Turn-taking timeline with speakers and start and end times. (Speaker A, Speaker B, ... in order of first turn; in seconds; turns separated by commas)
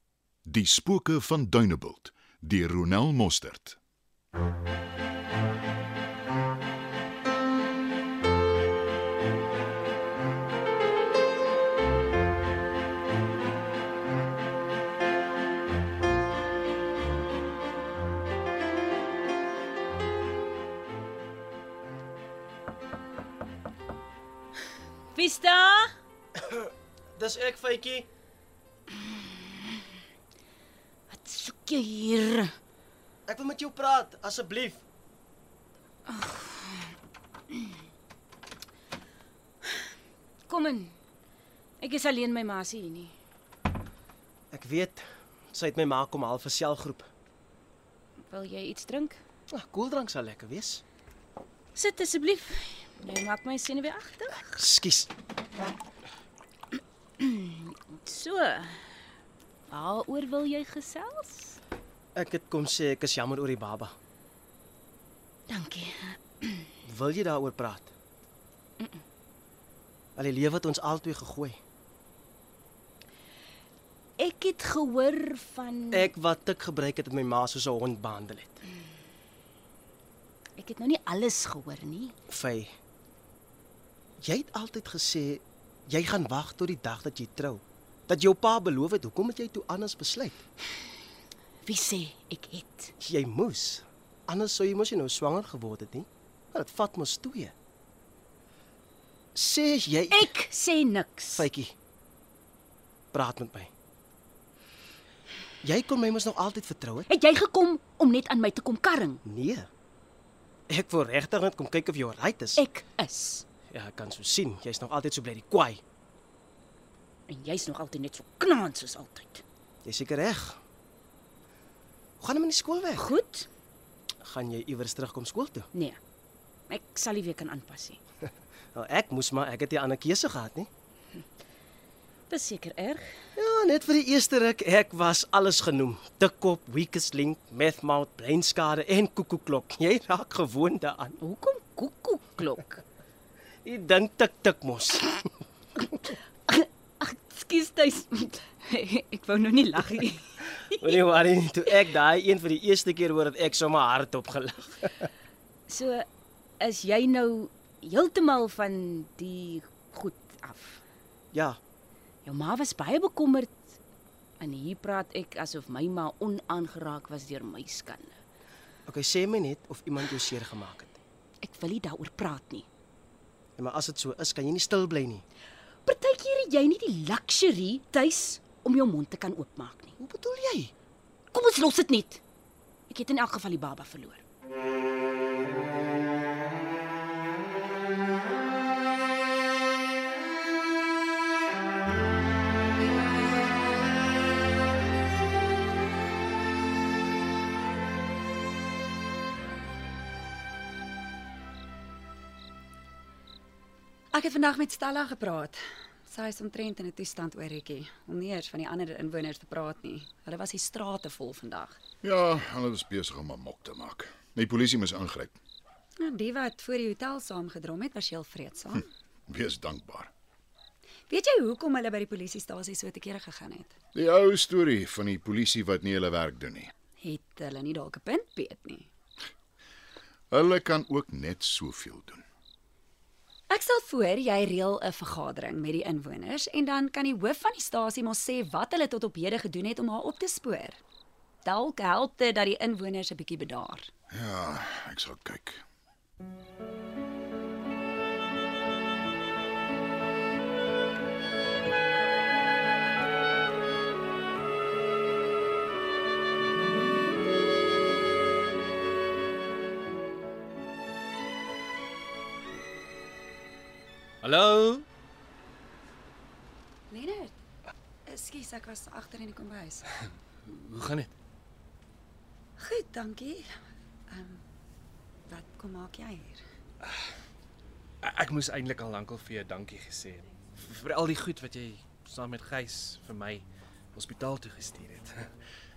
Speaker A: 0.5-3.8, Speaker B: 25.1-25.9, Speaker C: 26.4-28.1, Speaker B: 31.1-32.5, Speaker C: 33.3-34.8, Speaker B: 36.1-37.0, Speaker B: 40.5-41.0, Speaker B: 41.8-43.1, Speaker C: 44.5-47.1, Speaker B: 48.3-49.2, Speaker C: 49.5-50.8, Speaker B: 51.8-54.6, Speaker C: 54.6-55.1, Speaker B: 57.2-58.9, Speaker B: 59.7-61.6, Speaker C: 62.1-64.0, Speaker B: 65.5-66.7, Speaker C: 66.8-67.9, Speaker C: 70.2-71.6, Speaker B: 74.2-76.1, Speaker C: 75.9-78.6, Speaker B: 80.6-82.1, Speaker C: 82.3-82.7, Speaker C: 84.2-90.4, Speaker B: 91.7-92.9, Speaker C: 93.0-97.5, Speaker C: 99.3-100.3, Speaker B: 100.1-101.5, Speaker C: 101.3-101.7, Speaker C: 103.1-103.7, Speaker C: 105.6-107.1, Speaker B: 107.1-109.2, Speaker C: 109.2-109.7, Speaker C: 110.7-112.6, Speaker B: 112.6-113.5, Speaker C: 113.7-115.8, Speaker B: 117.3-119.4, Speaker C: 119.8-120.6, Speaker C: 122.2-123.1, Speaker B: 123.0-123.5, Speaker C: 124.2-125.7, Speaker B: 125.7-126.0, Speaker B: 126.7-128.0, Speaker C: 128.7-130.7, Speaker B: 132.3-133.1, Speaker C: 133.4-141.2, Speaker B: 141.2-142.8, Speaker C: 143.7-145.2, Speaker B: 145.9-151.0, Speaker C: 150.8-155.1, Speaker B: 155.7-156.1, Speaker B: 156.6-160.8, Speaker C: 161.3-161.6, Speaker B: 162.2-163.6, Speaker B: 164.4-168.2, Speaker C: 168.9-171.0, Speaker B: 171.4-172.7, Speaker C: 173.6-175.2, Speaker B: 175.9-179.9, Speaker C: 180.0-180.7, Speaker B: 181.3-182.2, Speaker B: 182.9-184.2, Speaker D: 204.1-211.8, Speaker A: 212.0-215.4, Speaker D: 216.0-218.9, Speaker A: 219.3-220.1, Speaker D: 221.1-223.8, Speaker A: 223.9-226.7, Speaker D: 227.0-228.9, Speaker A: 230.3-232.2, Speaker D: 233.5-240.8, Speaker D: 241.4-243.9, Speaker A: 244.1-245.6, Speaker E: 264.2-264.9, Speaker D: 266.9-267.4, Speaker D: 268.1-269.9, Speaker E: 270.5-271.1, Speaker D: 272.6-273.5, Speaker D: 274.1-274.4, Speaker D: 275.3-276.4, Speaker E: 278.0-285.3